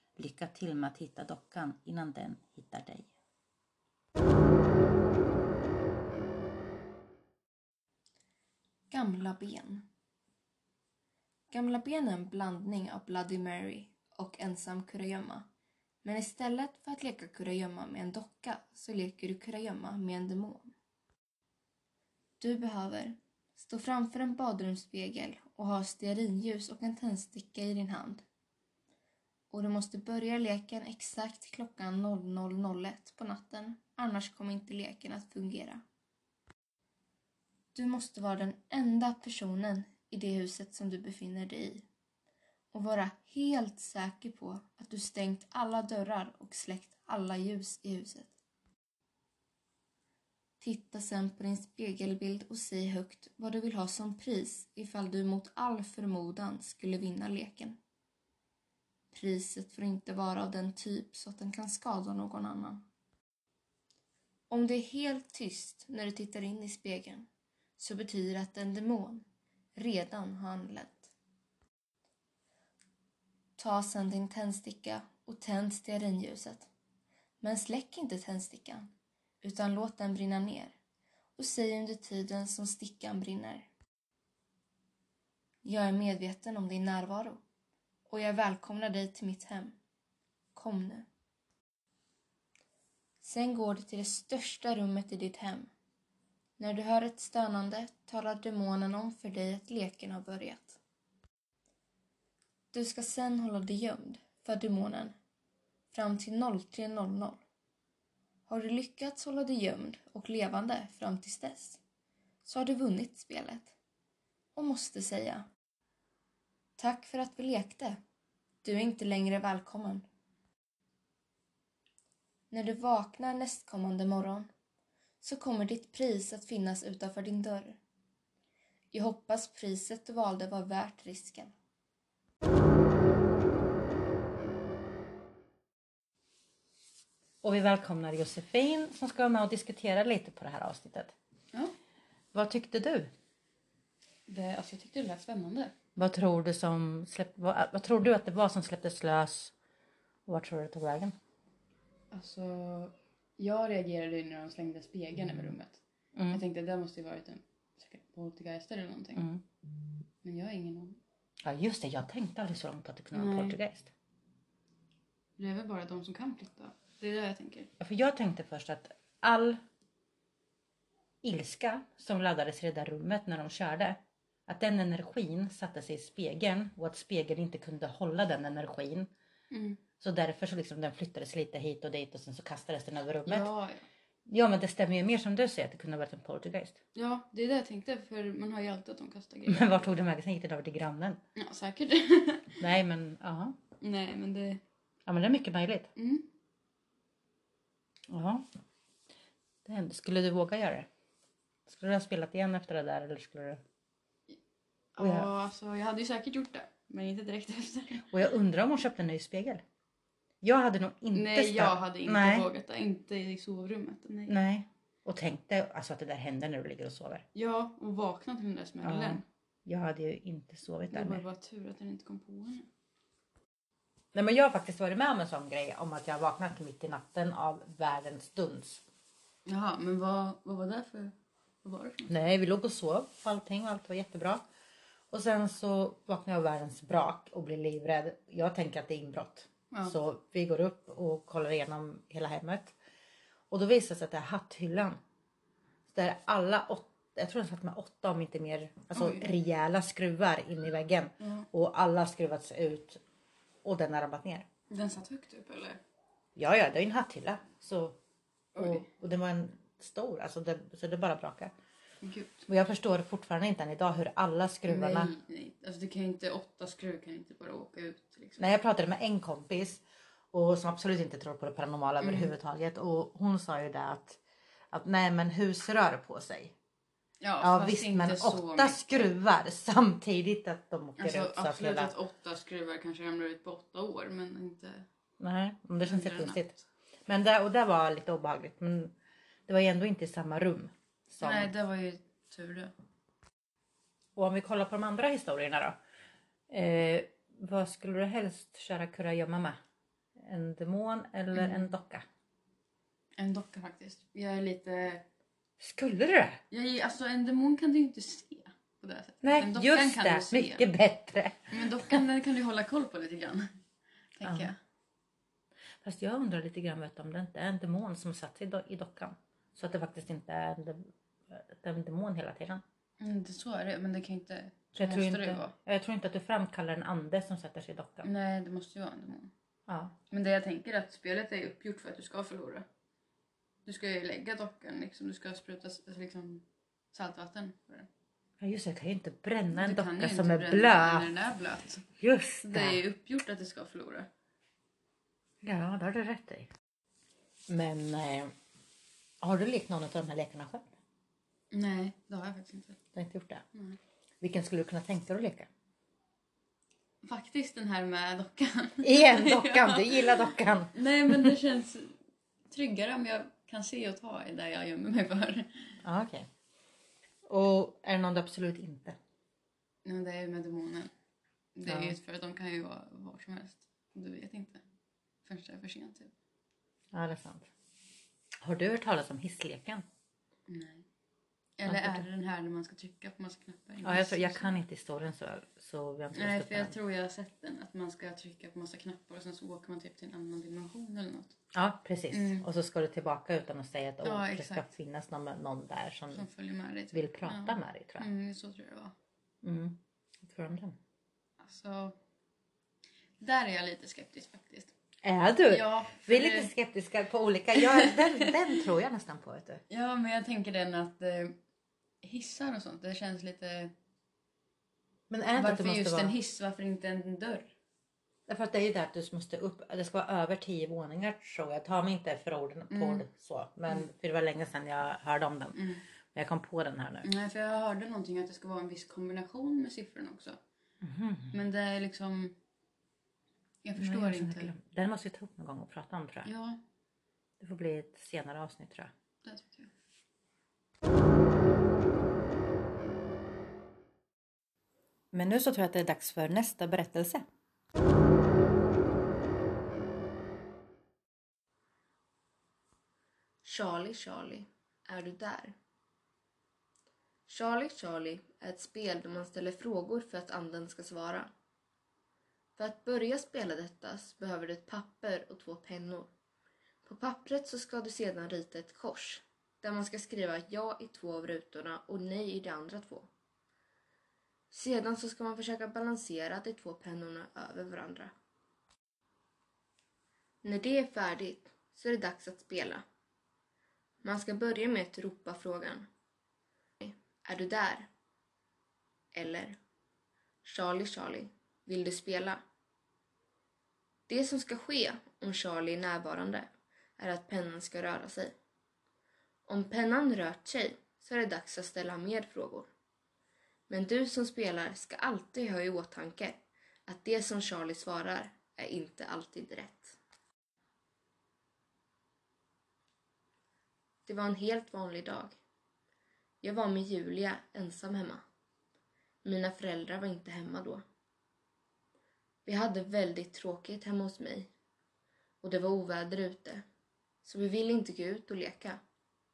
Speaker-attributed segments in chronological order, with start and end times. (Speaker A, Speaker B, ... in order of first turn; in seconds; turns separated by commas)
Speaker A: 0.2-3.1, Speaker B: 8.9-9.8, Speaker B: 11.5-15.4, Speaker B: 16.0-20.7, Speaker B: 22.4-28.2, Speaker B: 29.5-35.8, Speaker B: 37.7-41.9, Speaker B: 42.7-48.3, Speaker B: 50.6-57.8, Speaker B: 59.1-62.8, Speaker B: 64.5-67.3, Speaker B: 67.8-71.1, Speaker B: 73.6-76.7, Speaker B: 77.4-78.9, Speaker B: 79.4-80.8, Speaker B: 81.4-83.7, Speaker B: 85.6-87.4, Speaker B: 88.1-89.8, Speaker B: 90.5-91.0, Speaker B: 93.2-95.7, Speaker B: 96.6-100.8, Speaker B: 102.7-105.2, Speaker B: 105.9-107.4, Speaker B: 108.5-111.8, Speaker B: 112.4-113.7, Speaker B: 114.5-115.5, Speaker B: 116.8-118.0, Speaker B: 118.6-120.0, Speaker B: 122.5-124.5, Speaker B: 125.2-127.8, Speaker B: 128.9-131.5, Speaker A: 137.4-141.1, Speaker A: 142.3-143.1, Speaker C: 144.3-145.8, Speaker A: 145.9-149.5, Speaker A: 150.2-151.1, Speaker C: 152.1-159.2, Speaker A: 156.1-156.4, Speaker A: 159.2-159.4, Speaker C: 160.2-161.0, Speaker A: 161.4-163.9, Speaker C: 163.1-163.6, Speaker C: 165.4-167.7, Speaker A: 167.8-169.6, Speaker A: 171.2-179.1, Speaker C: 179.5-179.8, Speaker A: 180.0-183.5, Speaker C: 183.2-183.8, Speaker A: 184.3-186.8, Speaker C: 186.9-189.9, Speaker A: 189.5-191.2, Speaker C: 191.3-192.6, Speaker A: 192.6-193.6, Speaker C: 193.8-194.6, Speaker A: 195.1-195.9, Speaker C: 196.0-196.2, Speaker A: 198.1-198.4, Speaker A: 199.6-200.9, Speaker A: 201.7-203.6, Speaker C: 204.9-208.1, Speaker A: 205.0-205.3, Speaker A: 208.1-209.6, Speaker A: 210.4-212.4, Speaker C: 211.1-214.3, Speaker A: 214.3-217.2, Speaker C: 217.3-219.2, Speaker A: 218.8-221.2, Speaker C: 220.9-222.7, Speaker A: 224.1-228.8, Speaker C: 229.4-232.1, Speaker A: 232.1-234.4, Speaker A: 235.1-242.8, Speaker C: 239.7-239.9, Speaker A: 243.5-245.0, Speaker A: 245.9-253.0, Speaker C: 248.9-249.3, Speaker C: 251.2-251.5, Speaker A: 253.6-254.4, Speaker C: 254.7-255.8, Speaker A: 256.4-258.0, Speaker C: 258.5-258.9, Speaker A: 258.6-261.5, Speaker C: 262.0-262.5, Speaker A: 262.5-265.1, Speaker C: 264.6-268.5, Speaker A: 268.4-274.2, Speaker C: 272.0-272.3, Speaker A: 274.7-276.5, Speaker C: 277.2-279.0, Speaker A: 277.4-281.9, Speaker C: 281.0-284.9, Speaker A: 285.2-286.5, Speaker C: 285.8-286.5, Speaker A: 287.1-288.9, Speaker A: 289.5-291.5, Speaker C: 291.2-292.7, Speaker A: 294.1-295.8, Speaker A: 296.5-299.6, Speaker A: 300.2-302.0, Speaker C: 301.3-301.7, Speaker C: 303.2-305.0, Speaker A: 305.6-306.4, Speaker C: 306.5-310.6, Speaker A: 309.2-312.0, Speaker C: 311.5-313.5, Speaker C: 314.1-314.6, Speaker A: 314.2-314.5, Speaker A: 315.8-322.6, Speaker C: 323.0-325.5, Speaker A: 324.7-328.1, Speaker C: 328.0-329.3, Speaker A: 329.7-329.9, Speaker C: 330.1-332.6, Speaker C: 333.6-337.9, Speaker A: 338.4-341.1, Speaker C: 339.5-341.9, Speaker A: 342.0-342.8, Speaker C: 342.4-344.1, Speaker A: 345.4-346.5, Speaker A: 347.5-348.3, Speaker A: 349.2-350.6, Speaker C: 351.5-352.8, Speaker A: 352.9-353.4, Speaker C: 353.5-353.8, Speaker A: 354.2-355.5, Speaker C: 357.0-361.9, Speaker A: 358.8-361.3, Speaker C: 362.5-365.8, Speaker A: 365.8-366.3, Speaker A: 367.3-369.0, Speaker C: 369.8-370.9, Speaker C: 371.5-374.6, Speaker A: 371.6-372.0, Speaker C: 375.2-376.1, Speaker A: 376.9-377.5, Speaker A: 378.4-379.8, Speaker C: 380.5-380.8, Speaker C: 381.6-384.5, Speaker A: 381.7-382.1, Speaker A: 383.8-386.7, Speaker C: 386.1-391.4, Speaker A: 391.5-396.3, Speaker C: 392.1-392.4, Speaker C: 394.0-394.6, Speaker C: 396.1-398.9, Speaker A: 396.9-398.1, Speaker A: 399.4-400.8, Speaker C: 401.4-402.0, Speaker C: 403.2-404.7, Speaker A: 405.0-409.6, Speaker C: 405.5-406.5, Speaker C: 407.6-408.3, Speaker C: 409.7-411.4, Speaker C: 412.0-413.7, Speaker A: 415.1-416.1, Speaker C: 415.4-417.5, Speaker A: 418.3-427.1, Speaker C: 422.7-423.1, Speaker C: 425.5-425.8, Speaker C: 427.0-430.4, Speaker A: 430.8-431.3, Speaker C: 431.3-432.3, Speaker C: 433.6-434.5, Speaker A: 433.8-436.3, Speaker C: 436.2-436.6, Speaker A: 437.4-438.9, Speaker C: 439.2-439.7, Speaker A: 445.1-447.2, Speaker B: 453.4-455.6, Speaker B: 457.3-461.3, Speaker B: 462.6-466.1, Speaker B: 466.8-473.1, Speaker B: 474.5-478.1, Speaker B: 480.4-482.8, Speaker B: 484.0-485.9, Speaker B: 486.8-487.9, Speaker B: 489.1-489.6, Speaker B: 490.4-492.4, Speaker B: 494.1-498.3, Speaker B: 499.5-502.7, Speaker B: 503.7-510.0, Speaker B: 514.0-515.4, Speaker B: 516.4-518.2, Speaker B: 519.2-520.8, Speaker B: 522.4-524.5, Speaker B: 525.4-526.6, Speaker B: 527.2-528.8